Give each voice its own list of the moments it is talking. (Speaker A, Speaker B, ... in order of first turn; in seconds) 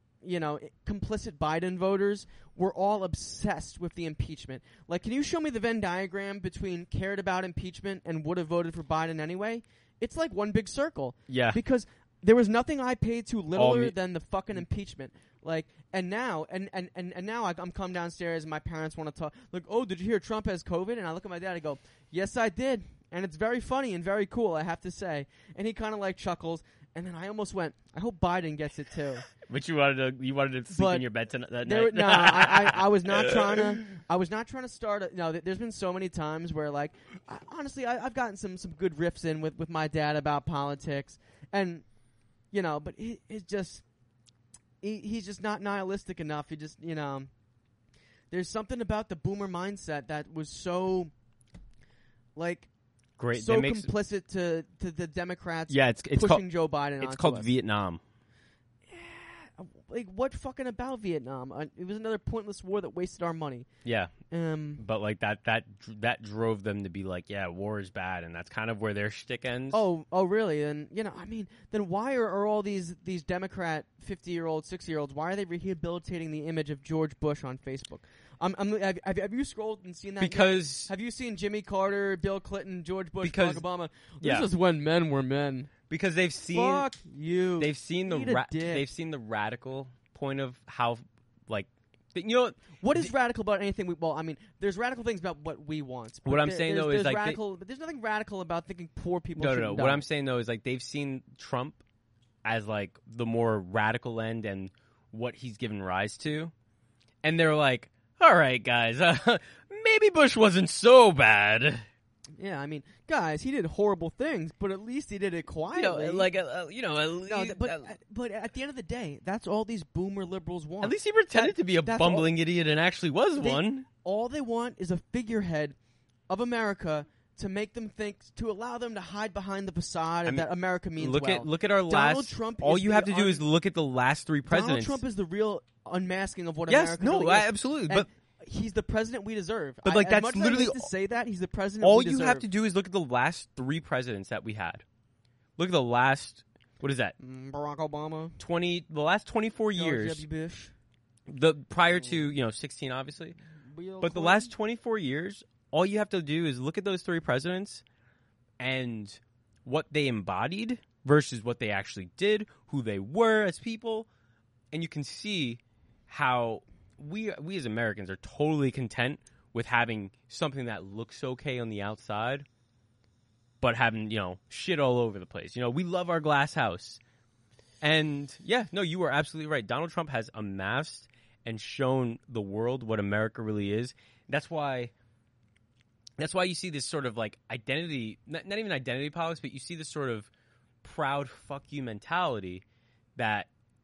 Speaker A: 0.2-29.3, 30.7-31.1, 31.6-41.9, 42.5-43.8, 44.8-47.3, 48.3-51.1, 52.4-52.7, 53.3-57.5, 58.9-63.7, 64.3-64.8, 69.7-85.7, 86.5-88.9, 92.8-100.0, 112.4-116.3, 117.3-122.3, 123.4-125.8, 126.3-133.4, 134.5-142.5, 147.2-148.4, 149.8-150.7, 153.6-154.5
Speaker B: 11.3-11.6, 13.6-13.9, 29.4-33.8, 53.2-53.9, 55.7-56.5, 57.0-58.0, 63.9-64.1, 64.8-69.8, 80.2-80.9, 83.2-83.6, 84.2-84.5, 85.9-86.9, 87.6-93.1, 96.2-97.4, 99.4-101.8, 102.4-106.5, 107.2-111.8, 115.7-117.9, 120.8-123.9, 130.2-135.0, 136.7-138.1, 139.8-140.9, 141.8-144.8, 145.6-147.2, 148.4-150.2, 151.3-153.4, 154.0-157.8, 158.6-164.1, 164.7-172.5, 173.6-177.0, 177.8-184.9, 186.2-190.3, 190.8-192.6, 193.2-193.5